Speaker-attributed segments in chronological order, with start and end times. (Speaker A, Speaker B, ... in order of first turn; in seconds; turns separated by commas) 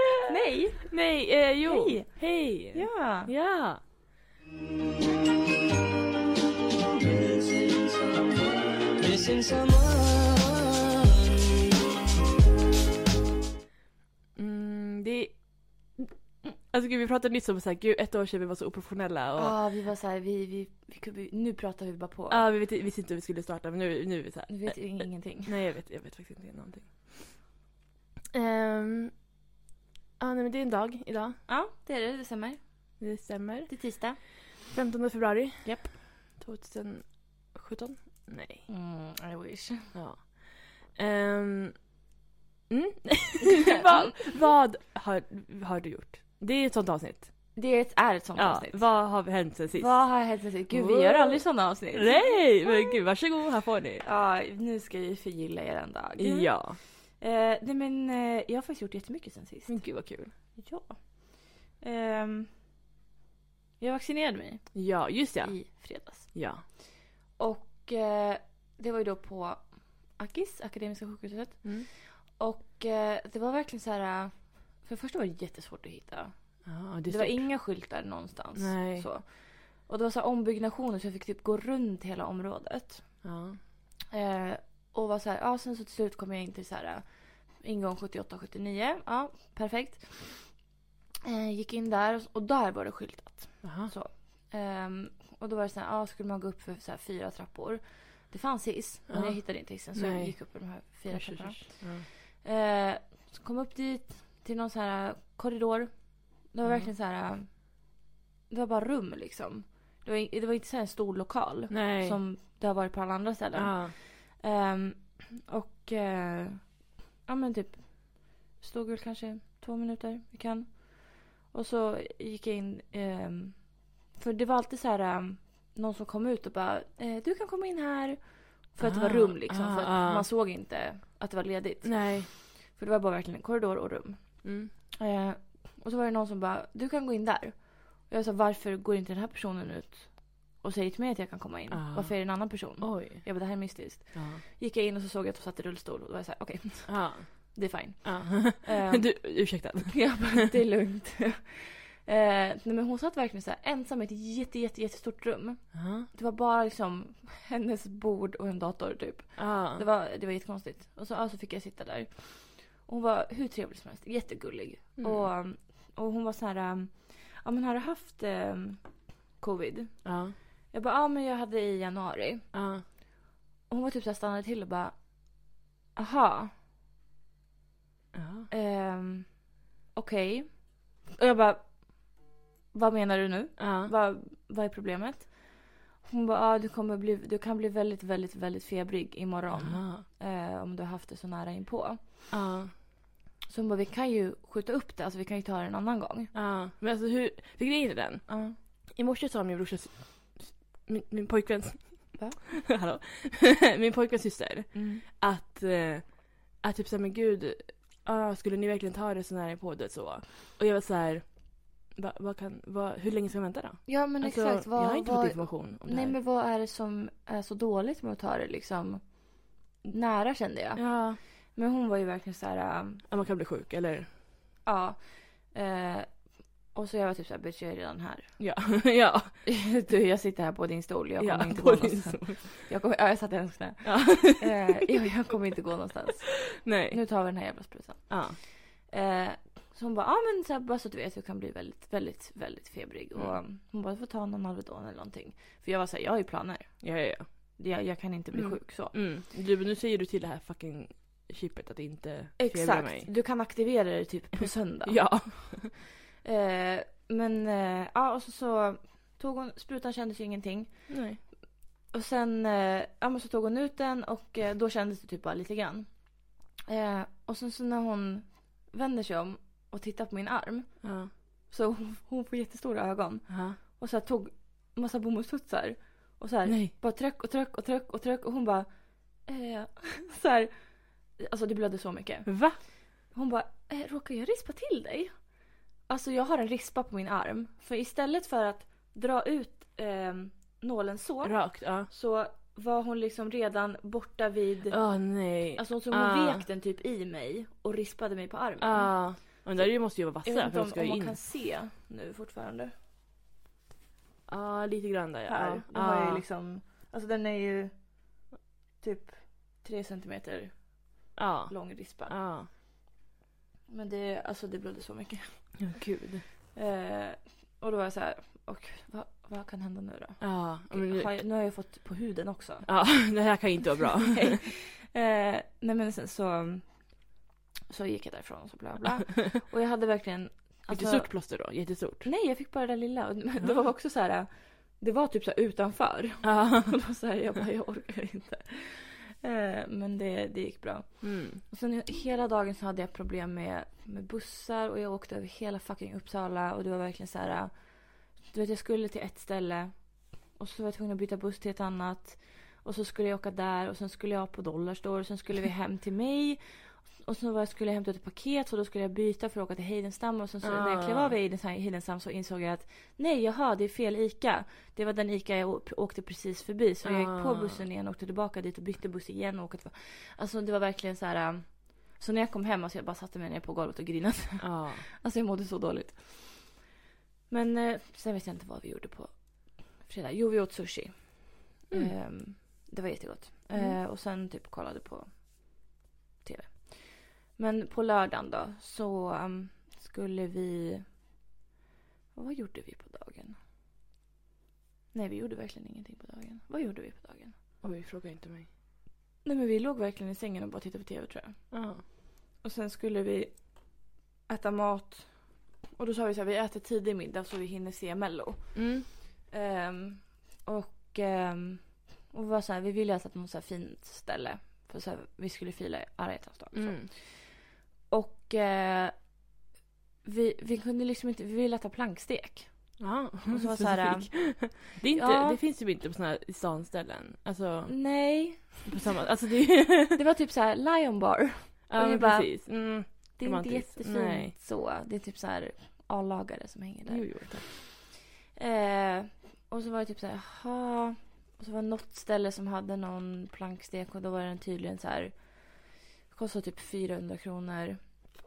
Speaker A: 0.3-0.9, Speaker B: 0.8-3.8, Speaker A: 1.6-3.3, Speaker C: 6.9-11.7, Speaker B: 14.3-16.1, Speaker B: 16.7-19.6, Speaker A: 19.4-22.5, Speaker B: 22.3-27.5, Speaker A: 24.5-25.5, Speaker B: 28.3-29.1, Speaker B: 30.2-31.4, Speaker A: 31.5-33.0, Speaker B: 33.0-38.7, Speaker A: 33.7-34.2, Speaker A: 35.6-35.9, Speaker A: 38.7-39.9, Speaker B: 39.9-41.9, Speaker B: 42.7-47.4, Speaker A: 43.4-44.4, Speaker A: 47.5-49.1, Speaker B: 48.4-54.0, Speaker A: 49.7-52.3, Speaker A: 54.0-62.5, Speaker B: 56.2-56.8, Speaker B: 59.7-60.4, Speaker A: 63.8-66.8, Speaker B: 64.7-66.6, Speaker A: 67.4-83.3, Speaker B: 76.7-77.7, Speaker B: 78.5-79.1, Speaker B: 83.2-83.6, Speaker A: 84.1-90.6, Speaker A: 91.2-107.9, Speaker B: 93.6-93.9, Speaker B: 99.1-102.1, Speaker A: 108.5-172.5, Speaker B: 111.7-112.2, Speaker B: 113.5-114.0, Speaker B: 128.8-130.3, Speaker B: 131.8-132.3, Speaker B: 134.4-134.7, Speaker B: 141.7-144.4, Speaker B: 146.9-150.4, Speaker B: 155.7-156.1, Speaker B: 159.4-159.8, Speaker B: 165.0-165.3, Speaker B: 170.0-170.4, Speaker B: 172.5-172.8, Speaker A: 173.7-175.1, Speaker A: 175.9-176.5, Speaker B: 178.1-178.5, Speaker A: 178.5-182.2, Speaker A: 182.7-192.3, Speaker B: 183.6-183.9, Speaker B: 189.5-190.1, Speaker B: 192.3-192.7, Speaker A: 193.5-196.3, Speaker B: 196.3-198.4, Speaker A: 198.3-198.6, Speaker B: 198.9-216.2, Speaker A: 204.7-205.0, Speaker A: 213.9-223.0, Speaker B: 220.8-221.2, Speaker B: 223.1-224.1, Speaker A: 224.7-228.4, Speaker B: 228.4-229.3, Speaker A: 229.4-248.9, Speaker B: 231.2-232.7, Speaker B: 233.8-234.7, Speaker B: 236.5-237.0, Speaker B: 238.1-238.4, Speaker B: 246.8-247.3, Speaker B: 248.3-253.1, Speaker A: 252.4-261.3, Speaker B: 254.4-255.7, Speaker B: 260.9-261.2, Speaker A: 261.9-285.3, Speaker B: 270.8-271.1, Speaker B: 273.3-273.6, Speaker B: 276.5-276.7, Speaker B: 282.3-282.6, Speaker A: 285.9-302.7, Speaker B: 291.2-291.9, Speaker B: 294.7-296.4, Speaker B: 298.6-301.2, Speaker B: 304.3-306.2, Speaker A: 305.3-307.8, Speaker A: 308.8-312.2, Speaker B: 311.2-312.5, Speaker A: 313.7-315.8, Speaker B: 315.6-316.3, Speaker A: 316.5-323.2, Speaker B: 320.2-321.1, Speaker B: 322.7-324.4, Speaker A: 324.1-327.1, Speaker A: 327.7-376.7, Speaker B: 330.7-332.1, Speaker B: 336.2-336.8, Speaker B: 341.0-341.4, Speaker B: 360.4-361.2, Speaker B: 366.8-367.6, Speaker B: 374.4-374.9, Speaker A: 377.3-385.7, Speaker B: 381.7-382.0, Speaker B: 383.5-383.8, Speaker A: 386.2-390.9, Speaker A: 392.1-393.4, Speaker A: 394.9-397.4, Speaker B: 397.6-398.5, Speaker A: 399.2-419.1, Speaker B: 401.5-401.8, Speaker B: 408.6-408.9, Speaker B: 416.5-416.9, Speaker A: 420.0-425.4, Speaker B: 422.8-430.0, Speaker A: 427.7-428.7, Speaker A: 429.9-447.8, Speaker B: 431.7-434.4, Speaker B: 436.9-437.5